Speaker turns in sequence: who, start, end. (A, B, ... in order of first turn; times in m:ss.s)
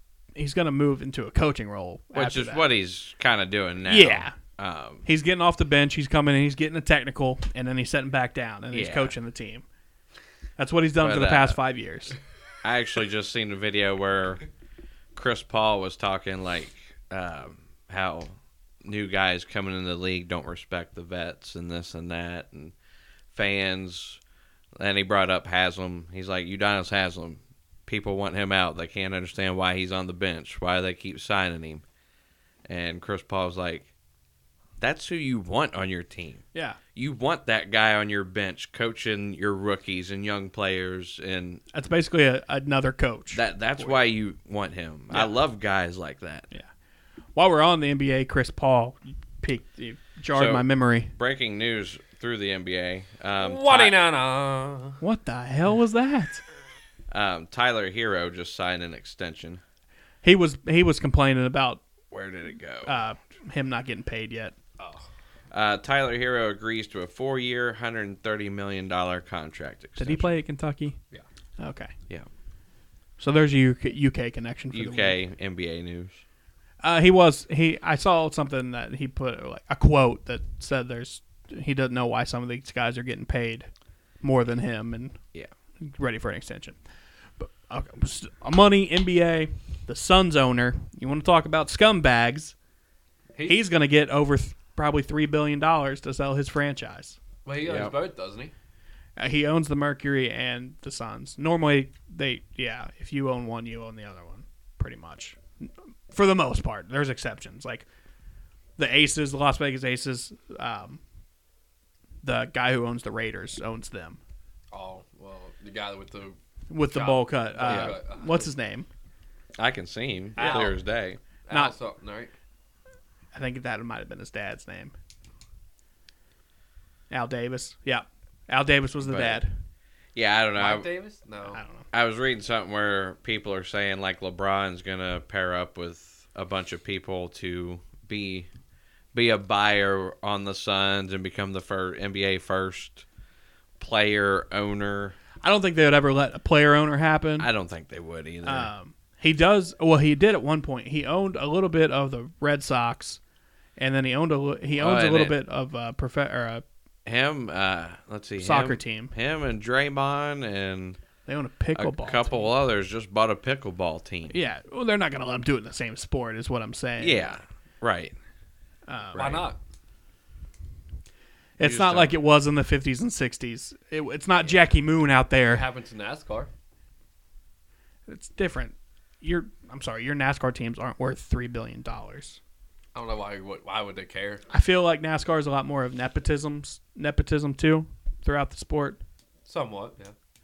0:00.3-0:02.6 A
0:02.1-0:05.0 B
0:03.8-0:04.4 A
0:05.0-0:09.6 A
0:08.7-0:09.1 B
0:10.6-0:12.2 A
0:11.0-0:11.6 B
0:12.6-0:14.4 B
0:15.1-0:22.7 B
0:23.3-0:24.2 B
0:24.8-0:31.8 B
0:32.6-0:33.9 B
0:34.8-0:36.4 B
0:36.5-0:36.8 A
0:36.9-0:41.6 B
0:41.7-0:44.0 A
0:43.3-0:46.5 B
0:47.3-0:51.1 A
0:50.3-0:54.0 B
0:53.4-0:55.0 C
0:55.0-0:56.4 A
0:57.1-0:59.6 B
1:00.2-1:01.8 A
1:02.1-1:02.9 B
1:02.8-1:04.5 A
1:04.8-1:05.0 C
1:05.5-1:10.3 B
1:10.0-1:11.0 A
1:11.6-1:11.9 A
1:13.2-1:15.2 A
1:14.7-1:16.2 B
1:16.8-1:23.7 A
1:24.2-1:25.2 A
1:25.8-1:26.8 A
1:27.4-1:32.5 A
1:33.3-1:33.6 C
1:33.4-1:37.2 A
1:37.4-1:38.5 C
1:37.6-1:37.9 B
1:39.2-1:47.8 A
1:48.8-1:51.0 A
1:52.2-1:54.2 A
1:54.7-1:56.4 C
1:56.7-1:58.9 A
1:56.9-1:58.5 C
1:57.6-1:58.0 B
1:59.6-2:01.2 B
2:00.4-2:00.8 C
2:00.4-2:00.7 A
2:01.5-2:02.3 C
2:03.3-2:04.9 A
2:07.1-2:09.6 A
2:09.0-2:09.4 B
2:10.1-2:10.9 B
2:10.6-2:11.6 C
2:11.5-2:11.8 A
2:11.9-2:18.5 B
2:19.1-2:23.0 B
2:23.8-2:25.2 B
2:25.4-2:27.5 A
2:27.4-2:28.7 B
2:28.4-2:33.2 A
2:33.8-2:36.6 A
2:34.8-2:35.4 B
2:37.0-2:41.0 B
2:38.4-2:39.1 A
2:41.2-2:42.5 A
2:41.7-2:44.4 B
2:44.3-2:47.4 A
2:47.0-2:48.1 B
2:48.9-2:49.5 A
2:49.1-2:49.6 C
2:51.6-2:55.6 A
2:51.6-2:52.1 B
2:55.5-2:56.5 C
2:58.1-3:02.4 A
3:02.9-3:04.4 C
3:04.5-3:09.0 A
3:09.4-3:10.1 C